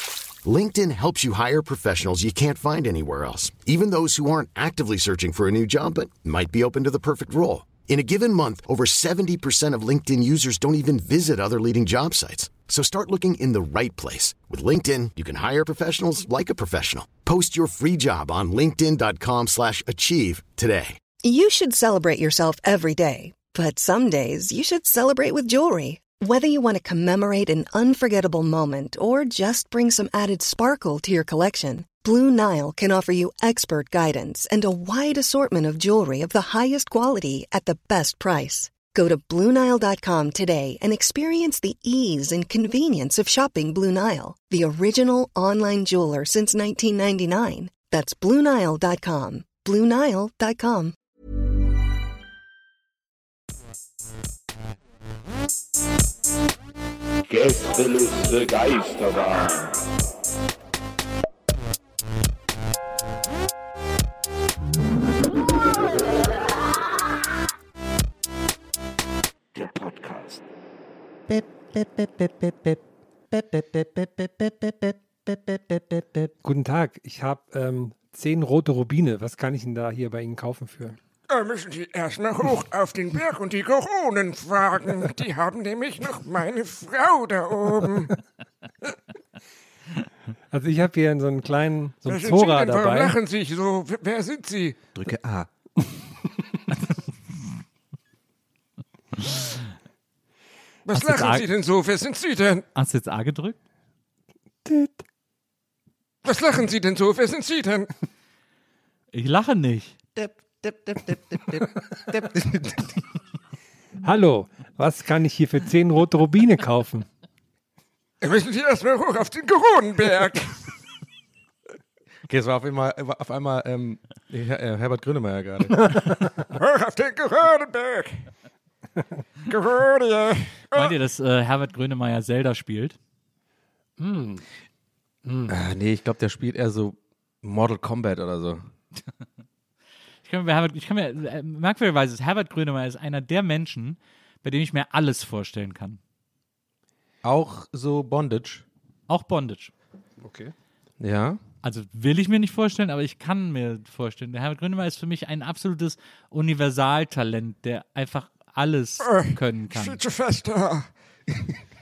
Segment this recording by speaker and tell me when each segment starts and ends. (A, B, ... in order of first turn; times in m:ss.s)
0:00.4-0:21.0 A
0:21.2-0:51.0 B
0:58.0-0:59.6 C
1:09.6-1:10.4 C
1:11.3-1:12.8 D
1:13.3-1:16.3 D
1:16.4-1:21.0 E
1:21.3-1:28.1 C
1:30.5-1:33.2 E
1:32.1-1:34.8 C
1:35.0-1:35.5 D
1:40.9-1:42.6 C
1:41.0-1:41.4 F
1:42.8-1:43.6 F
1:44.6-1:45.0 E
1:46.2-1:47.9 C
1:49.1-1:50.0 F
1:50.2-1:53.0 D
1:54.0-1:57.1 E
1:58.2-2:00.7 C
2:02.3-2:06.1 D
2:05.8-2:06.1 E
2:06.4-2:08.3 C
2:09.5-2:10.9 C
2:10.7-2:13.0 F
2:14.0-2:14.4 E
2:15.2-2:15.6 E
2:15.5-2:18.7 D
2:20.2-2:26.0 F
2:27.2-2:28.6 D
2:29.1-2:29.7 F
2:30.2-2:30.5 E
2:31.0-2:31.4 D
2:31.6-2:40.0 F
2:39.0-2:41.5 C